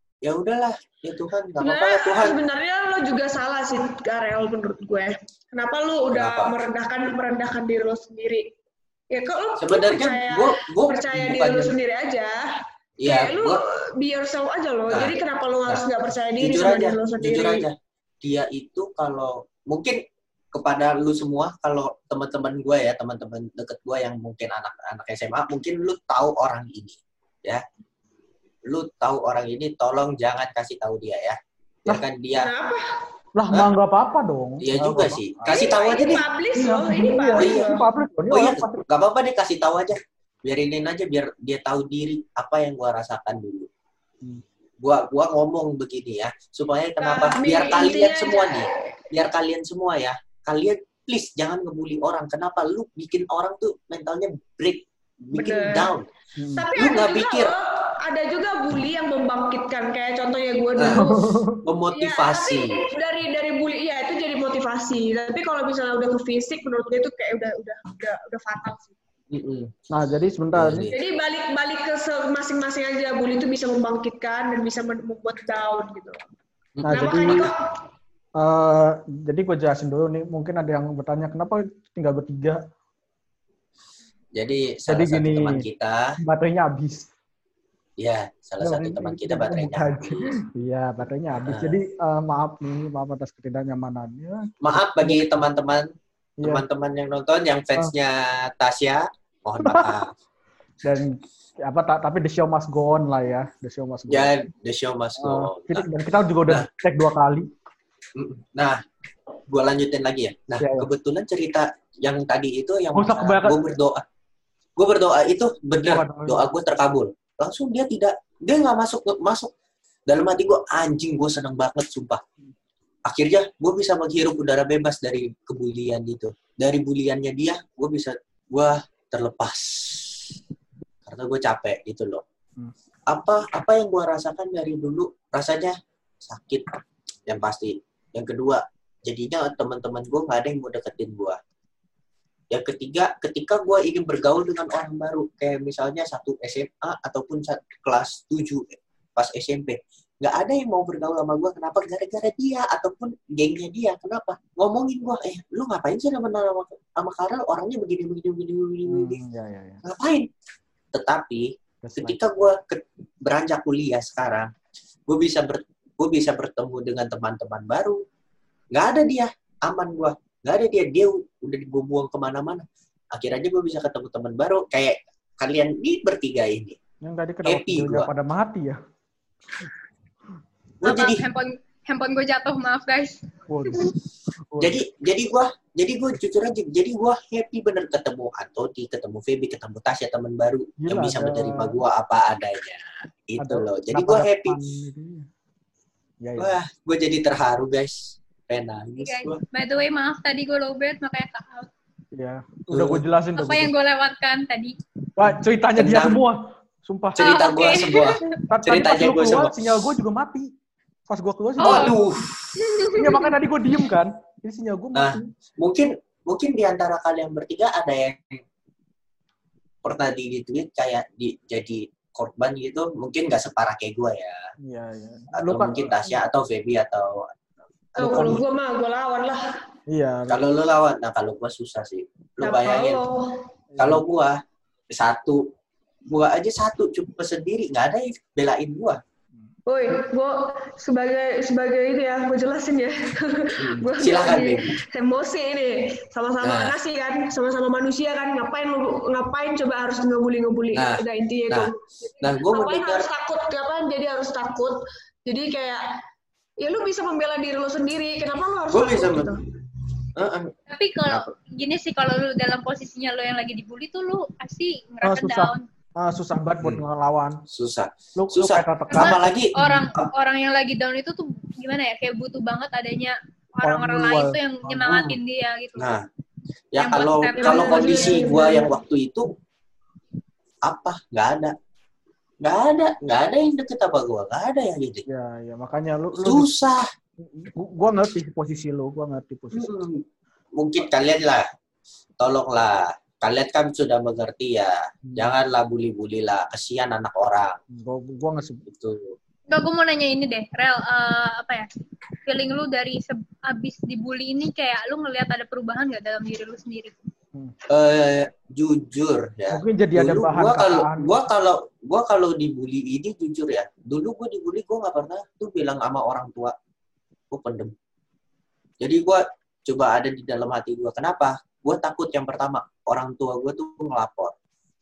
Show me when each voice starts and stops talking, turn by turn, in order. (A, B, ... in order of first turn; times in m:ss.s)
0:00.2-0:02.4 A
0:01.6-0:08.5 B
0:06.1-0:06.6 A
0:09.1-0:12.4 B
0:09.6-0:11.8 A
0:13.0-0:13.6 A
0:13.0-0:17.7 B
0:14.9-0:15.2 A
0:16.4-0:20.0 A
0:20.5-0:27.6 A
0:28.7-0:32.5 A
0:32.4-0:32.9 B
0:33.4-0:35.7 C
0:34.6-0:36.3 A
0:35.5-0:37.8 B
0:36.6-0:38.8 C
0:37.4-0:37.7 A
0:38.3-0:43.7 A
0:44.8-0:56.1 A
0:47.0-0:48.8 B
0:55.4-0:55.9 B
0:56.4-0:56.7 C
0:56.6-1:01.3 B
0:56.8-0:57.6 A
1:00.8-1:01.1 A
1:00.9-1:01.6 C
1:01.6-1:02.8 A
1:01.9-1:08.9 B
1:09.3-1:09.7 A
1:09.9-1:10.9 C
1:10.6-1:11.0 A
1:10.9-1:16.2 B
1:16.8-1:17.5 A
1:16.8-1:17.5 C
1:16.9-1:17.6 B
1:18.4-1:22.6 C
1:24.4-1:26.1 A
1:24.9-1:25.6 C
1:26.2-1:27.1 C
1:28.0-1:30.3 A
1:28.6-1:35.4 C
1:31.4-1:31.8 A
1:34.6-1:35.9 A
1:36.4-1:40.1 A
1:39.6-1:39.9 C
1:40.8-1:44.3 C
1:44.1-1:45.9 A
1:45.2-1:47.5 C
1:48.2-1:48.8 A
1:49.5-1:54.0 A
1:50.6-1:50.9 C
1:52.9-1:53.7 C
1:54.8-1:59.5 A
1:55.8-1:56.4 C
2:00.1-2:02.2 A
2:03.1-2:10.3 A
2:11.1-2:12.2 A
2:13.1-2:21.4 A
2:22.5-2:39.2 A
2:38.9-2:39.8 C
2:39.8-2:40.3 A
2:40.9-2:44.5 A
2:41.8-2:42.2 C
2:45.1-2:48.0 A
2:48.7-2:56.8 A
2:57.0-2:58.8 C
2:57.4-2:58.1 A
3:00.8-3:01.2 A
3:00.8-3:03.2 D
3:03.5-3:03.9 C
3:04.5-3:04.8 C
3:04.6-3:14.6 A
3:10.8-3:11.8 C
3:13.4-3:15.3 C
3:16.2-3:16.6 C
3:16.4-3:19.4 A
3:19.0-3:21.7 D
3:22.1-3:23.7 C
3:22.7-3:23.0 A
3:23.4-3:24.8 D
3:25.2-3:27.3 C
3:25.8-3:26.2 A
3:27.2-3:29.7 A
3:27.2-3:28.3 D
3:28.5-3:30.5 C
3:31.1-3:32.0 C
3:31.6-3:32.7 A
3:31.6-3:32.0 D
3:33.0-3:35.3 C
3:34.9-3:38.4 A
3:39.8-3:44.5 A
3:44.6-3:46.2 C
3:45.3-3:47.3 A
3:48.0-3:48.4 A
3:48.0-3:49.6 B
3:48.0-3:48.4 C
3:49.9-3:50.4 C
3:50.3-3:53.0 A
3:52.4-3:53.2 B
3:53.7-3:54.0 C
3:53.8-3:54.4 A
3:54.9-3:55.5 A
3:56.1-3:59.0 A
3:59.7-4:15.8 B
4:03.6-4:04.8 A
4:06.4-4:06.8 A
4:10.7-4:13.1 A
4:16.6-4:19.4 B
4:18.7-4:19.4 A
4:20.2-4:20.5 A
4:20.7-4:25.7 D
4:25.0-4:27.4 C
4:27.5-4:30.1 A
4:28.2-4:29.8 C
4:28.9-4:35.9 D
4:33.6-4:34.4 C
4:34.8-4:35.2 A
4:35.8-4:36.0 A
4:36.7-4:39.3 A
4:36.8-4:38.3 D
4:37.4-4:38.7 B
4:40.7-4:41.6 A
4:42.4-4:45.0 A
4:45.1-4:46.5 C
4:46.2-4:46.8 A
4:47.4-4:49.7 C
4:49.5-4:50.0 A
4:50.6-4:51.4 A
4:52.2-4:57.6 A
4:55.1-4:55.4 C
4:57.7-4:58.7 C
4:58.7-4:59.2 A
4:59.5-5:01.7 D
5:02.2-5:07.0 D
5:07.7-5:16.6 A
5:09.5-5:11.2 C
5:17.3-5:17.7 A
5:18.8-5:24.3 A